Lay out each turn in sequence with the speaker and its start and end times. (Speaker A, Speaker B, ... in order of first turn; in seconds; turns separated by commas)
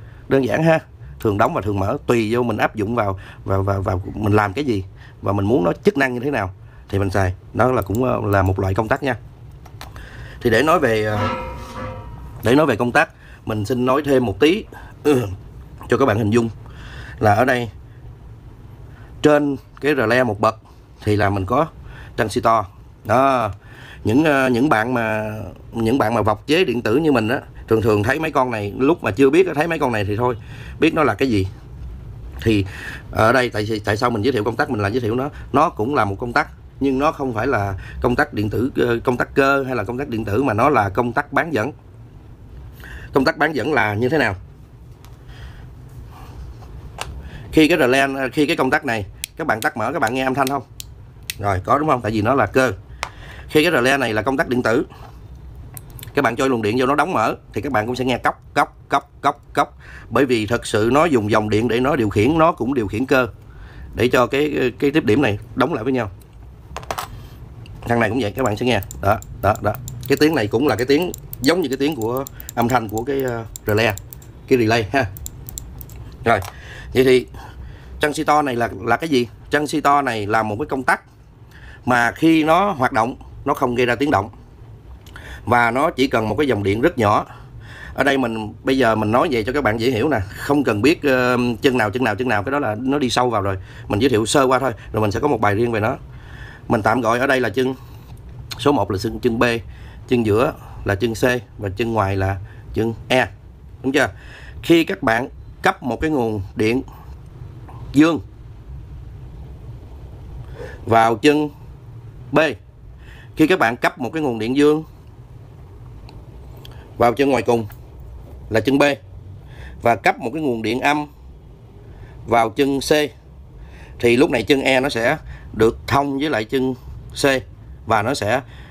Speaker A: 0.3-9.2, Speaker A: 10.4-11.4, Speaker A: 12.4-15.3, Speaker A: 15.9-16.5, Speaker A: 17.2-17.7, Speaker A: 19.2-23.5, Speaker A: 24.1-31.5, Speaker A: 32.4-41.7, Speaker A: 43.1-44.4, Speaker A: 47.5-50.7, Speaker A: 51.4-52.8, Speaker A: 53.5-54.9, Speaker A: 56.1-63.3, Speaker A: 63.9-66.1, Speaker A: 67.8-75.1, Speaker A: 76.2-77.3, Speaker A: 78.0-81.0, Speaker A: 81.8-84.3, Speaker A: 85.5-87.3, Speaker A: 88.0-96.0, Speaker A: 96.7-97.8, Speaker A: 98.6-103.3, Speaker A: 103.8-104.1, Speaker A: 104.6-106.8, Speaker A: 107.9-108.2, Speaker A: 110.8-111.5, Speaker A: 113.4-114.8, Speaker A: 117.0-117.7, Speaker A: 118.5-119.0, Speaker A: 119.8-121.1, Speaker A: 122.3-123.1, Speaker A: 124.0-128.4